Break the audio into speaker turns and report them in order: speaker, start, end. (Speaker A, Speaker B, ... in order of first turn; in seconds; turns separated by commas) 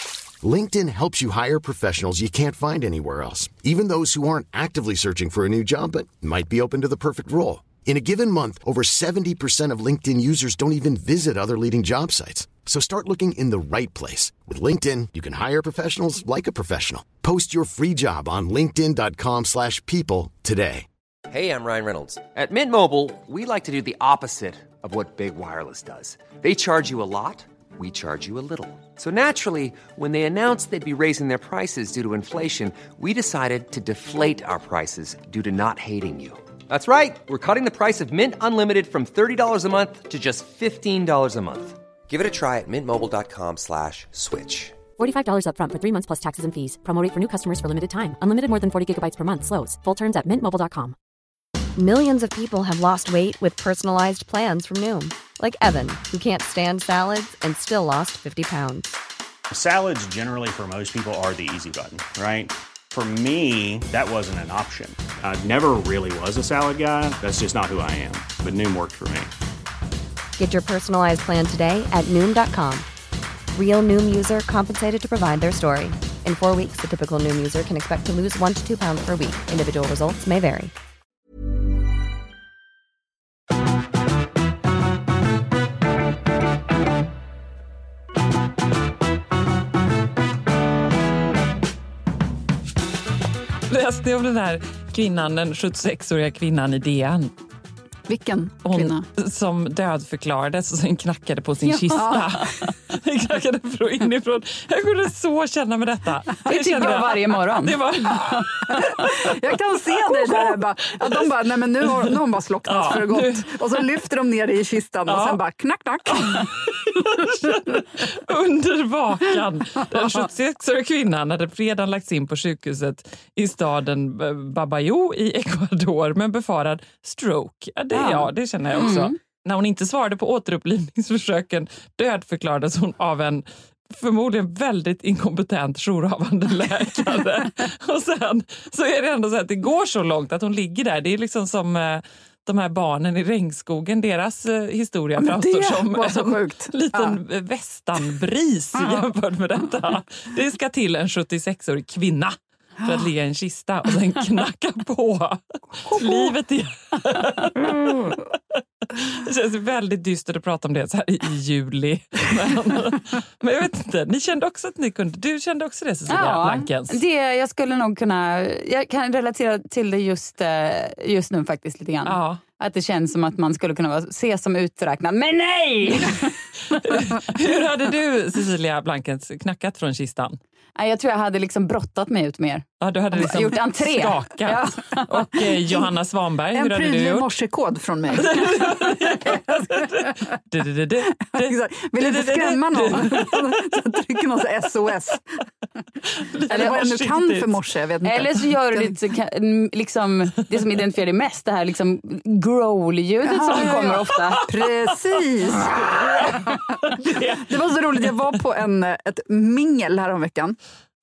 Speaker A: 0.4-20.9, Speaker B: 21.3-44.9, Speaker C: 45.0-51.0, Speaker D: 51.8-58.9, Speaker E: 59.5-69.3, Speaker D: 70.4-72.9, Speaker D: 73.5-80.7, Speaker F: 93.7-97.3, Speaker G: 98.1-99.0, Speaker F: 98.6-109.2, Speaker H: 101.6-102.1, Speaker G: 101.9-102.4, Speaker H: 106.5-107.8, Speaker G: 106.5-107.0, Speaker G: 108.3-117.0, Speaker F: 110.1-111.3, Speaker F: 111.8-113.5, Speaker F: 115.1-115.4, Speaker F: 116.2-158.3, Speaker G: 120.0-120.2, Speaker H: 127.9-129.2, Speaker G: 145.2-147.2, Speaker G: 155.9-156.3, Speaker G: 157.7-158.2, Speaker F: 159.0-167.0, Speaker H: 166.1-176.3, Speaker F: 172.1-172.4, Speaker F: 176.7-180.4, Speaker H: 180.8-185.1, Speaker F: 182.8-187.3, Speaker G: 186.5-189.9, Speaker F: 188.1-193.8, Speaker G: 191.2-195.2, Speaker F: 196.1-197.6, Speaker G: 196.5-198.9, Speaker H: 196.5-196.8, Speaker H: 198.0-204.4, Speaker G: 203.2-206.7, Speaker F: 203.6-208.1, Speaker G: 207.4-210.6